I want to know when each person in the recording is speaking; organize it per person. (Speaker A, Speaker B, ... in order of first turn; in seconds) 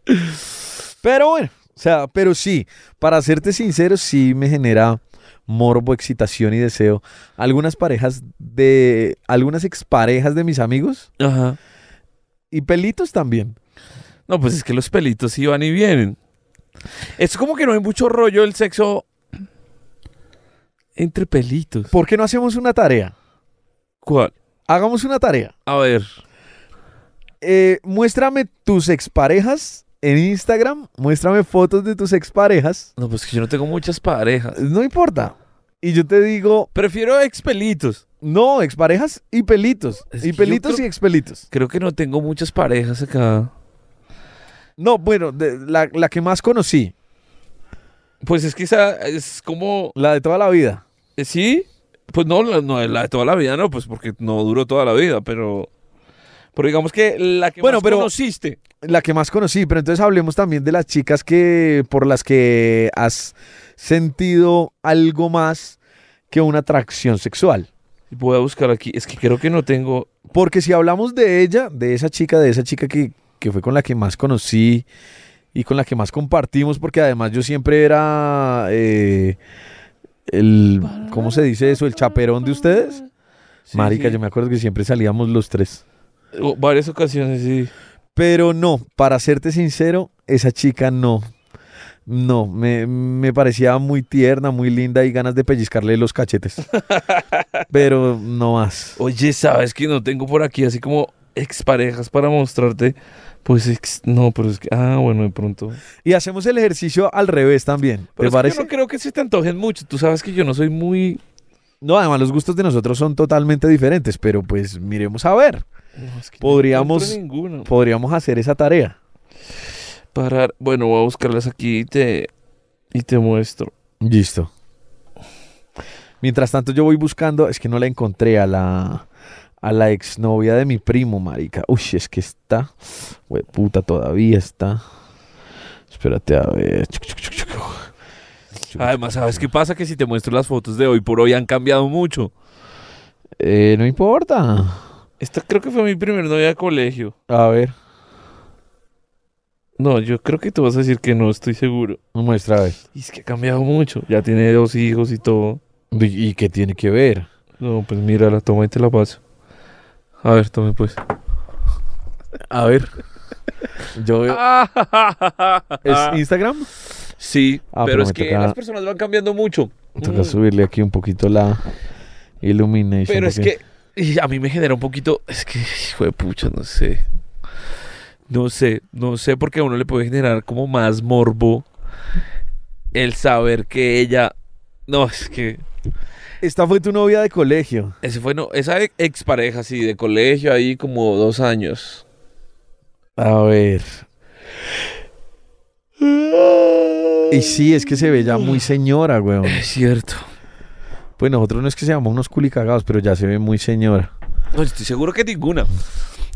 Speaker A: 1.0-11.1, 12.5-13.6, 21.9-23.1, 24.7-25.5, 27.4-32.9, 34.5-36.7, 38.2-41.4, 44.8-46.9, 50.0-50.8, 57.6-58.1, 58.8-65.8, 66.3-67.7, 70.3-74.8, 75.5-79.4, 80.3-83.0, 83.7-85.8, 88.2-91.2, 92.0-96.7, 97.7-99.0, 106.0-108.7, 111.8-115.6, 116.4-119.0, 124.0-124.5, 126.2-129.0, 129.6-134.8, 135.9-137.9, 138.6-139.4, 143.4-144.8, 147.3-147.7, 152.1-152.8, 155.9-157.3, 162.5-162.9, 163.9-164.4, 165.8-166.7, 167.7-168.6, 170.0-171.6, 172.4-173.5, 186.4-187.9, 193.2-194.0, 197.3-199.7, 201.2-204.1
Speaker B: 11.2-11.6, 14.3-16.2, 17.2-19.1, 20.9-21.9, 24.0-24.3, 25.6-26.1, 33.0-34.6, 36.7-38.0, 40.1-40.8, 41.5-43.5, 48.2-50.0, 51.2-55.7, 56.5-58.6, 68.1-70.1, 81.0-81.4, 83.7-84.2, 86.3-87.7, 96.7-97.6, 99.0-105.8, 108.2-111.2, 116.0-117.7, 120.1-122.3, 122.9-123.7, 138.8-142.3, 145.2-147.1, 149.8-152.0, 152.9-155.6, 157.6-159.2, 160.2-161.0, 164.3-166.2, 167.2-170.4, 173.1-177.0, 178.3-181.7, 182.9-184.3, 184.9-185.6, 188.0-192.0, 196.5-197.2, 199.4-200.3, 204.5-205.7